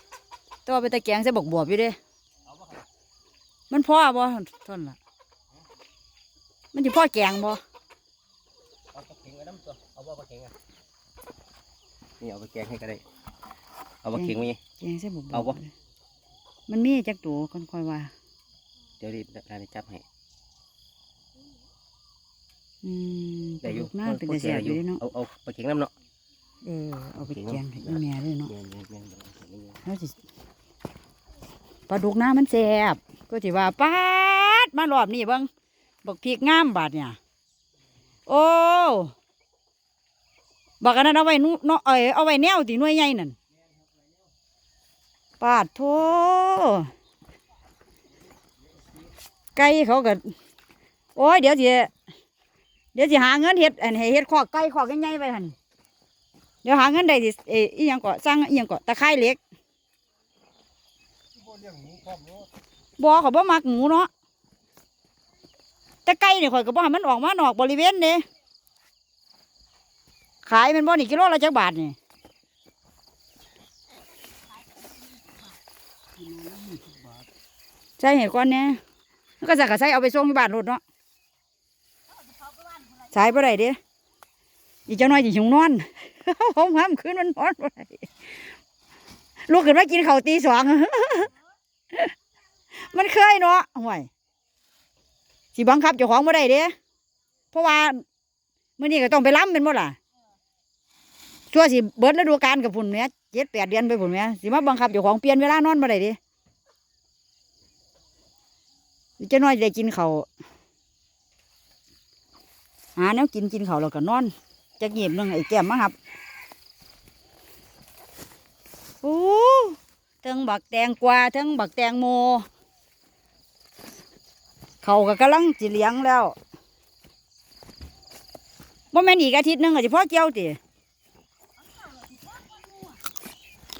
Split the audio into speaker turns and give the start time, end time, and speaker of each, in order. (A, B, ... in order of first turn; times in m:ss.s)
0:00.6-0:02.0 A
0:03.7-0:05.0 A
0:06.7-0:07.6 A
0:08.9-0:10.5 B
0:12.2-0:13.0 B
0:14.0-0:14.6 B
0:14.1-0:15.7 A
0:16.7-0:18.1 A
0:19.0-0:20.0 B
0:22.8-0:25.0 A
0:23.6-0:25.9 B
0:26.6-0:28.5 A
0:27.3-0:29.8 B
0:29.8-0:30.2 A
0:31.9-0:35.5 A
0:36.0-0:37.2 A
0:38.3-0:39.1 A
0:40.8-0:43.3 A
0:45.4-0:46.9 A
0:49.5-0:50.3 A
0:51.2-0:51.9 A
0:52.9-0:55.5 A
0:56.6-0:59.4 A
1:01.5-1:02.3 B
1:03.0-1:04.1 A
1:06.0-1:08.2 A
1:10.4-1:12.0 A
1:18.0-1:18.8 A
1:19.4-1:20.8 A
1:23.0-1:23.8 A
1:24.9-1:28.3 A
1:29.5-1:31.3 A
1:32.7-1:34.1 A
1:35.5-1:36.7 A
1:37.5-1:38.0 A
1:38.8-1:40.0 A
1:41.5-1:46.2 A
1:49.2-1:50.3 A
1:53.0-1:56.0 A
1:59.0-2:02.4 A
2:04.8-2:06.4 A
2:08.9-2:10.6 A